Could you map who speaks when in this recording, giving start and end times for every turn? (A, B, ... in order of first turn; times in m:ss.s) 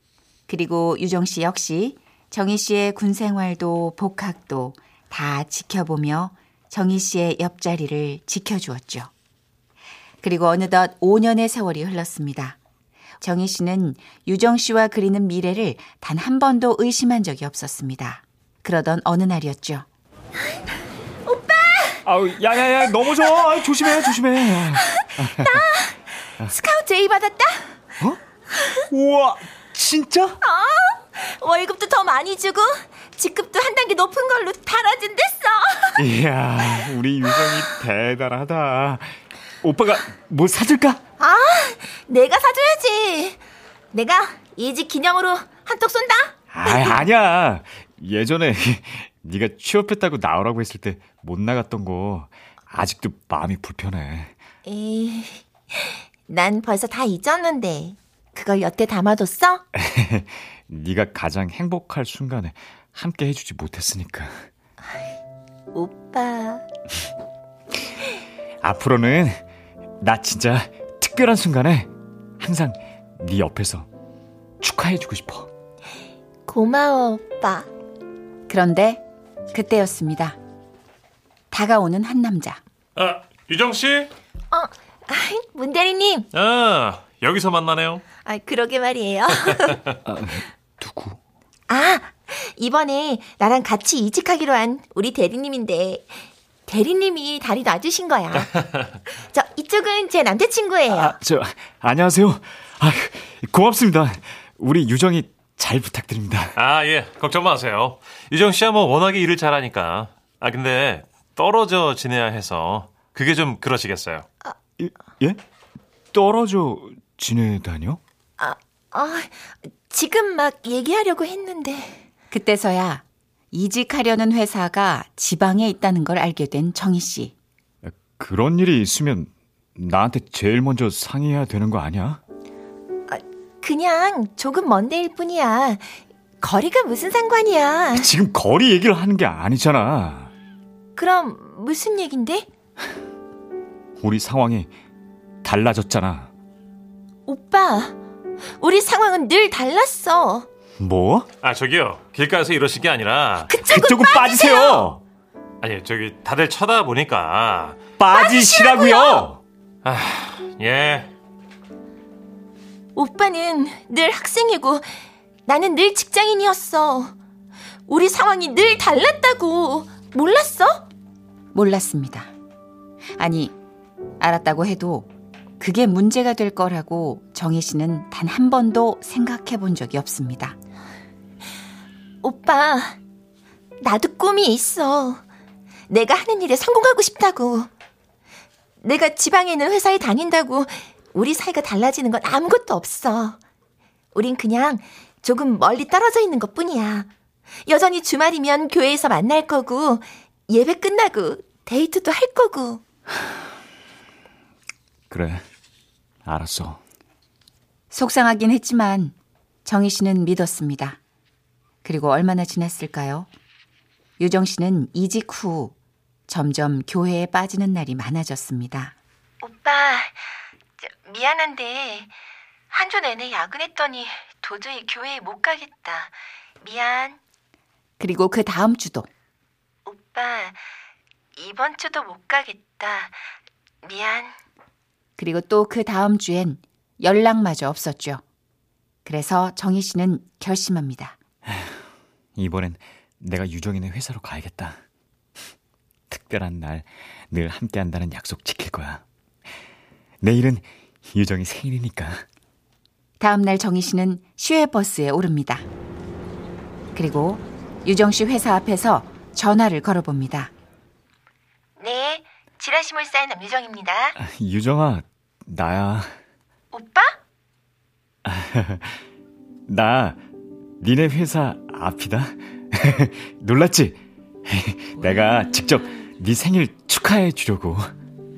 0:00.5-0:09.1 A
0:10.2-0:12.6 A
0:13.2-0:19.8 A
0:21.2-0:22.0 B
0:22.0-0:25.7 C
0:24.7-0:27.8 B
0:28.9-0:30.4 C
0:30.4-0:36.0 B
0:36.0-0:41.0 C
0:41.2-0:43.4 B
0:43.9-0:47.0 B
0:46.5-0:54.3 C
0:54.6-0:59.6 B
0:59.7-1:04.4 C
1:05.7-1:06.6 B
1:08.6-1:09.4 C
1:10.0-1:13.9 C
1:14.6-1:15.5 C
1:16.4-1:17.7 B
1:18.5-1:20.4 A
1:21.5-1:22.6 A
1:23.0-1:24.1 D
1:24.5-1:26.3 B
1:26.3-1:28.0 D
1:28.2-1:29.8 B
1:30.0-1:31.2 C
1:31.7-1:38.5 B
1:38.4-1:38.8 D
1:39.1-1:41.2 B
1:40.9-1:46.6 C
1:46.6-1:54.2 D
1:54.8-1:55.4 C
1:56.1-1:58.0 C
1:58.4-2:02.0 B
2:02.3-2:07.3 A
2:07.8-2:12.2 C
2:13.1-2:18.1 B
2:17.9-2:20.3 C
2:21.0-2:22.5 B
2:24.0-2:24.7 C
2:25.4-2:26.3 C
2:27.3-2:28.0 B
2:28.5-2:30.5 B
2:30.8-2:31.3 C
2:31.4-2:33.5 D
2:33.4-2:34.9 B
2:33.6-2:35.0 C
2:35.6-2:37.8 D
2:38.0-2:39.4 C
2:38.1-2:39.3 B
2:39.8-2:41.1 D
2:42.9-2:44.9 B
2:45.5-2:47.1 B
2:47.9-2:50.8 B
2:51.5-2:52.3 A
2:53.2-2:53.5 A
2:54.2-2:55.1 A
2:55.6-3:00.5 A
3:02.2-3:03.0 B
3:03.8-3:05.2 B
3:05.9-3:07.7 B
3:08.8-3:13.4 B
3:14.1-3:17.1 B
3:17.6-3:22.8 B
3:25.1-3:25.4 C
3:26.2-3:26.8 C
3:27.9-3:29.1 A
3:29.6-3:31.0 A
3:31.8-3:33.3 A
3:34.2-3:35.7 A
3:36.3-3:38.9 A
3:39.4-3:40.2 B
3:40.8-3:42.1 B
3:42.7-3:47.2 B
3:48.0-3:49.1 A
3:49.8-3:50.6 B
3:51.4-3:53.2 B
3:53.8-3:54.4 B
3:55.2-3:58.2 A
3:59.0-4:01.2 A
4:01.4-4:01.8 C
4:02.4-4:04.8 C
4:06.1-4:09.0 C
4:10.2-4:12.2 C
4:13.2-4:15.6 A
4:16.9-4:20.5 A
4:21.8-4:24.2 B
4:24.2-4:26.1 C
4:26.7-4:27.2 B
4:28.2-4:29.0 C
4:29.7-4:30.2 C
4:30.8-4:37.9 C